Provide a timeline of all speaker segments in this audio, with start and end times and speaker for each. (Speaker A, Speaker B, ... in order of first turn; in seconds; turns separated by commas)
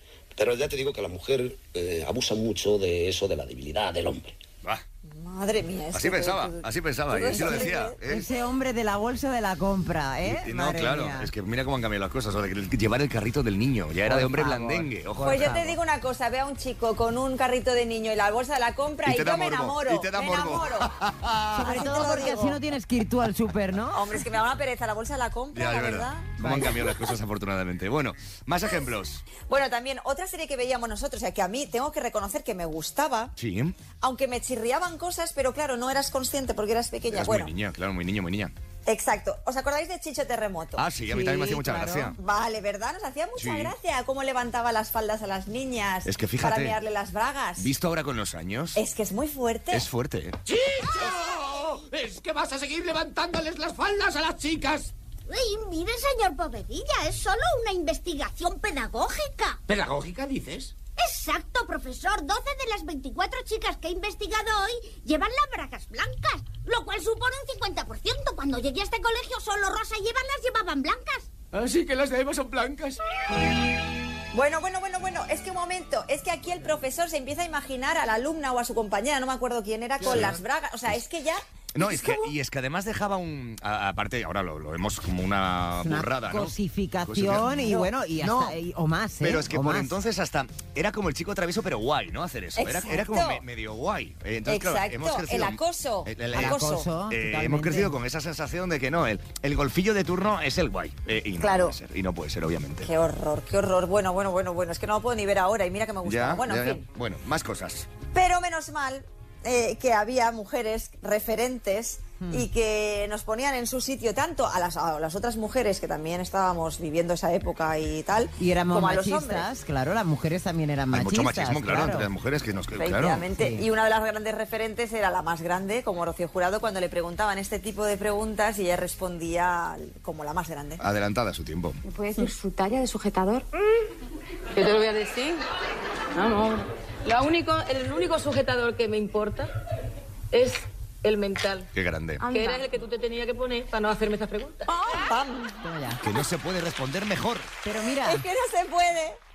Speaker A: 0.3-4.4, Speaker B: 5.0-8.0, Speaker C: 5.9-8.3, Speaker D: 8.1-11.3, Speaker C: 10.2-15.6, Speaker D: 14.1-15.7, Speaker B: 15.2-20.9, Speaker C: 19.0-22.0, Speaker D: 21.5-24.0, Speaker B: 21.6-22.6, Speaker B: 23.9-27.1, Speaker C: 25.5-29.2, Speaker D: 26.4-26.7, Speaker B: 29.5-33.3, Speaker C: 33.4-33.8, Speaker B: 34.0-37.5, Speaker C: 37.1-38.5, Speaker B: 38.9-40.9, Speaker C: 40.8-42.2, Speaker D: 41.1-42.1, Speaker B: 42.1-47.7, Speaker C: 43.4-43.7, Speaker C: 46.0-46.8, Speaker C: 47.6-48.8, Speaker B: 48.7-49.9, Speaker C: 49.7-50.4, Speaker E: 51.7-54.9, Speaker F: 55.3-59.6, Speaker E: 59.7-60.7, Speaker F: 61.0-71.3, Speaker E: 71.5-73.0, Speaker B: 74.3-82.3, Speaker C: 80.0-80.4, Speaker C: 81.7-88.5, Speaker D: 85.8-90.0, Speaker B: 87.5-87.9, Speaker C: 89.2-102.9, Speaker B: 92.6-93.4, Speaker B: 94.5-96.9, Speaker D: 96.3-97.9, Speaker B: 101.4-101.7, Speaker B: 102.8-106.8, Speaker C: 106.0-107.9, Speaker B: 108.1-119.5, Speaker D: 112.2-112.5, Speaker D: 118.4-122.1, Speaker C: 120.9-123.2, Speaker B: 122.8-130.8, Speaker D: 123.3-123.6, Speaker C: 130.8-131.8, Speaker G: 131.8-133.5, Speaker G: 134.5-135.4, Speaker G: 136.1-139.5, Speaker G: 140.3-144.7, Speaker C: 141.7-142.2, Speaker B: 144.7-145.6, Speaker D: 145.6-146.0, Speaker C: 146.0-147.5, Speaker D: 147.6-148.2, Speaker B: 148.0-149.2